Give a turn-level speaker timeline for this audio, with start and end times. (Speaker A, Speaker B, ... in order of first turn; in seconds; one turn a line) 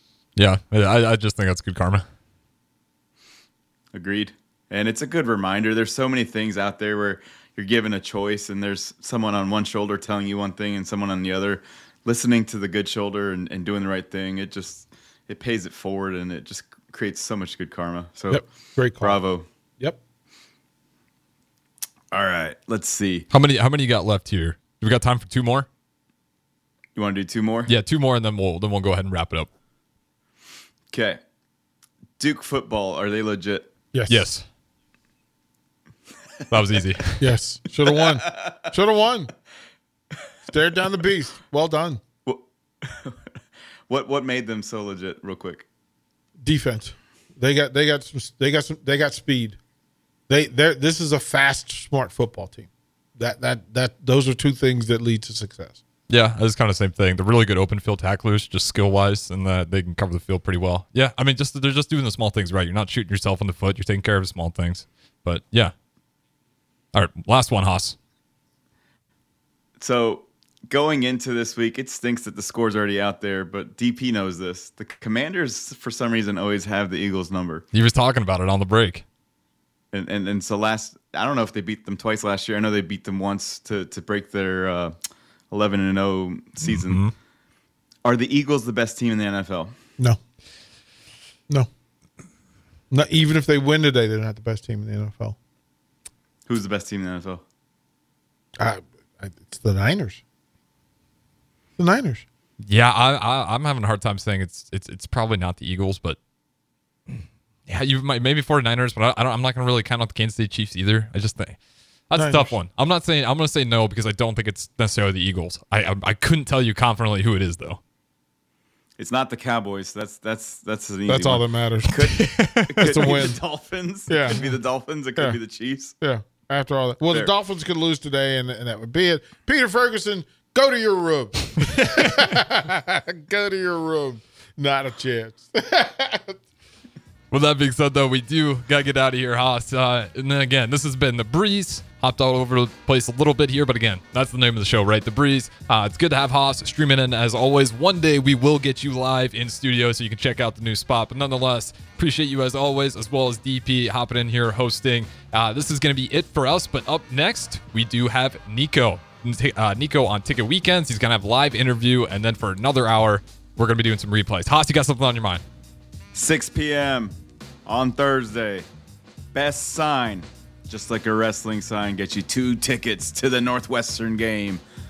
Speaker A: 0.3-2.0
Speaker B: 3.9-18.4
Speaker C: 18.3-19.2
Speaker B: 19.0-19.4
Speaker B: 22.1-23.3
Speaker A: 23.3-25.7
Speaker B: 26.9-27.7
Speaker A: 27.7-29.5
Speaker B: 30.9-31.2
Speaker B: 32.2-33.7
Speaker C: 33.9-34.3
Speaker A: 34.1-34.4
Speaker A: 36.5-37.2
Speaker C: 37.2-39.3
Speaker B: 38.0-38.5
Speaker C: 40.4-42.0
Speaker B: 42.2-43.3
Speaker B: 43.9-45.6
Speaker C: 46.4-49.6
Speaker C: 50.3-55.8
Speaker A: 56.1-65.7
Speaker A: 66.9-68.0
Speaker B: 69.8-77.7
Speaker A: 77.7-79.0
Speaker B: 79.9-84.9
Speaker B: 85.5-87.1
Speaker A: 86.6-87.1
Speaker B: 88.0-89.7
Speaker C: 92.9-95.3
Speaker B: 96.5-97.4
Speaker C: 98.6-100.2
Speaker C: 101.8-102.2
Speaker A: 102.6-106.2
Speaker A: 107.1-111.6
Speaker A: 112.1-117.8
Speaker C: 112.1-112.6
Speaker B: 119.0-126.0
Speaker C: 121.1-122.0
Speaker A: 122.2-123.2
Speaker C: 122.8-123.4
Speaker C: 124.1-124.4
Speaker C: 126.0-136.4
Speaker A: 131.9-132.2
Speaker A: 137.3-165.4
Speaker B: 166.1-168.7
Speaker B: 169.3-174.6